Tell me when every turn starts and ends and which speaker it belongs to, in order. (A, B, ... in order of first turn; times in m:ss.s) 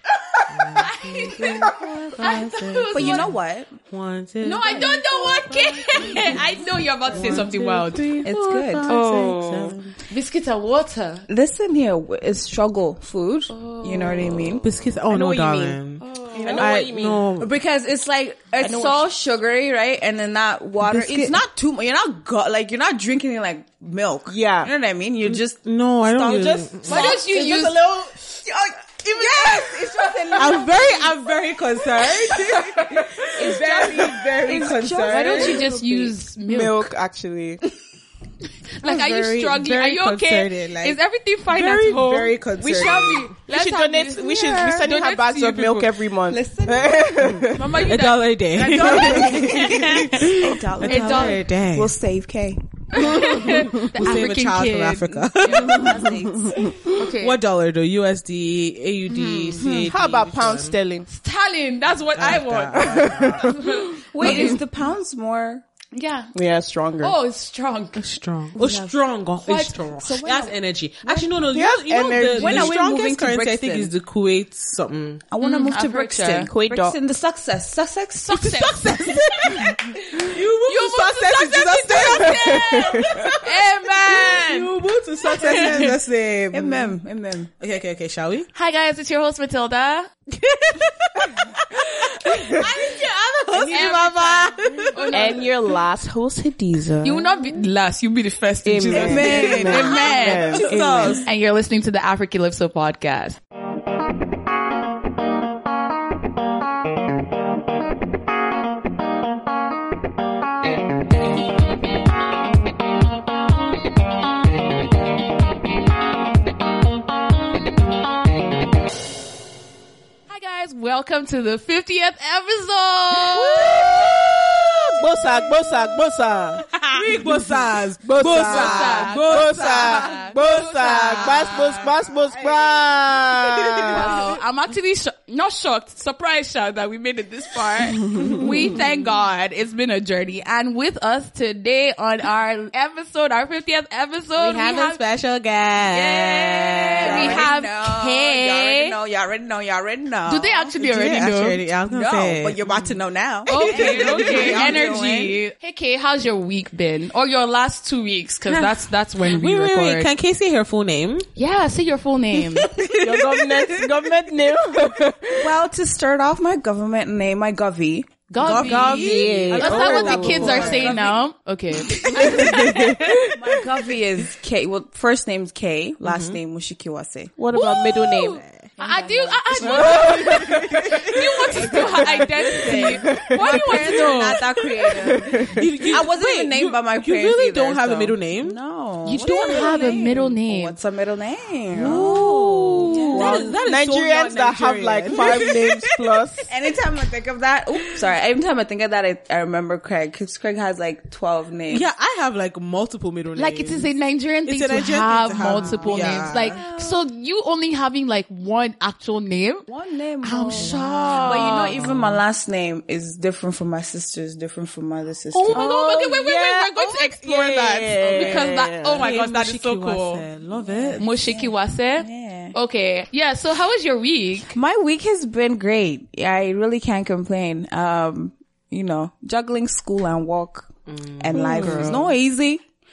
0:00.5-0:03.4 A
0:00.8-0:03.3 B
0:01.6-0:03.8 C
0:03.9-0:06.4 A
0:04.4-0:08.2 B
0:06.2-0:06.6 D
0:07.1-0:10.0 A
0:08.2-0:08.9 C
0:08.9-0:09.8 D
0:08.9-0:09.3 B
0:10.1-0:11.3 B
0:11.3-0:14.6 C
0:13.5-0:14.6 B
0:14.6-0:16.0 A
0:15.1-0:15.8 D
0:16.0-0:16.6 B
0:16.4-0:17.3 D
0:16.6-0:17.5 A
0:17.4-0:27.2 C
0:18.6-0:19.1 D
0:20.8-0:21.4 A
0:24.3-0:24.7 D
0:25.3-0:27.1 A
0:26.2-0:28.3 D
0:26.9-0:27.8 B
0:28.4-0:31.1 C
0:29.0-0:30.2 D
0:30.4-0:35.6 A
0:32.5-0:32.9 B
0:33.4-0:36.0 C
0:33.4-0:37.6 D
0:35.1-0:36.9 B
0:38.8-0:46.0 B
0:38.8-0:43.3 A
0:42.8-0:47.8 D
0:46.3-0:47.3 C
0:47.5-0:51.4 B
0:47.9-0:51.9 A
0:48.6-0:53.2 C
0:48.6-0:49.3 D
0:52.9-0:55.9 B
0:53.1-0:53.6 D
0:53.3-0:55.9 A
0:55.4-0:56.7 C
0:55.6-0:56.8 D
0:57.0-0:57.4 B
0:57.0-1:00.8 A
0:59.1-0:59.8 B
0:59.6-0:59.9 C
0:59.9-1:01.1 D
1:01.1-1:04.6 B
1:02.2-1:03.5 A
1:02.8-1:04.5 D
1:04.1-1:05.6 C
1:04.2-1:04.6 A
1:05.9-1:06.3 B
1:06.4-1:07.2 D
1:07.0-1:08.0 B
1:08.0-1:15.2 A
1:08.6-1:08.9 C
1:09.5-1:09.8 B
1:10.0-1:10.5 C
1:11.5-1:12.7 D
1:12.4-1:13.9 C
1:15.3-1:18.9 C
1:15.4-1:16.5 B
1:16.5-1:17.0 D
1:18.3-1:24.7 B
1:19.0-1:19.6 D
1:20.2-1:23.2 A
1:22.3-1:23.4 D
1:24.0-1:27.0 A
1:25.3-1:26.0 B
1:26.5-1:27.5 C
1:27.6-1:28.5 A
1:28.5-1:30.1 B
1:30.4-1:35.1 A
1:31.7-1:35.5 B
1:33.6-1:33.8 C
1:35.1-1:37.3 D
1:37.0-1:43.4 B
1:38.6-1:41.2 D
1:38.9-1:41.2 C
1:40.6-1:41.2 A
2:00.3-2:03.8 B
2:03.5-2:04.4 D
2:03.6-2:04.7 A
2:05.0-2:06.8 D
2:06.8-2:10.3 A
2:08.0-2:14.2 D
2:08.2-2:11.9 B
2:11.2-2:14.3 A
2:13.9-2:25.0 B
2:24.4-2:27.5 A
2:25.9-2:29.0 B
2:26.8-2:30.6 C
2:30.3-2:31.6 B
2:30.8-2:32.9 A
2:31.9-2:35.4 C
2:33.5-2:40.1 B
2:33.6-2:34.7 A
2:38.5-2:38.7 C
2:39.2-2:41.3 A
2:41.4-2:42.7 B
2:42.7-2:43.8 A
2:43.0-2:45.5 D
2:45.4-2:51.2 C
2:48.3-2:53.2 B
2:48.4-2:51.0 A
2:48.5-2:51.0 D
2:52.0-2:52.7 C
2:52.1-2:53.6 D
2:53.3-2:57.3 C
2:56.0-2:56.4 A
2:57.4-2:58.4 D
2:57.5-3:04.4 B
2:58.2-2:58.7 A
2:58.8-3:00.3 C
2:59.6-3:01.0 A
2:59.7-3:00.8 D
3:01.5-3:13.6 C
3:01.7-3:03.7 D
3:04.9-3:05.7 D
3:05.5-3:08.6 A
3:09.0-3:10.8 B
3:11.8-3:16.2 A
3:11.9-3:16.5 D
3:16.5-3:21.9 C
3:21.7-3:24.0 A
3:23.4-3:29.7 B
3:24.5-3:26.6 A
3:25.5-3:27.0 C
3:29.7-3:35.7 C
3:30.2-3:31.8 B
3:30.5-3:32.2 A
3:35.3-3:40.3 B
3:35.5-3:41.1 A
3:35.6-3:36.2 D
3:37.1-3:39.0 D
3:40.6-3:42.6 C
3:41.0-3:44.6 B
3:44.5-3:52.6 C
3:50.9-3:52.1 A
3:51.3-3:52.0 D
3:51.6-3:51.9 B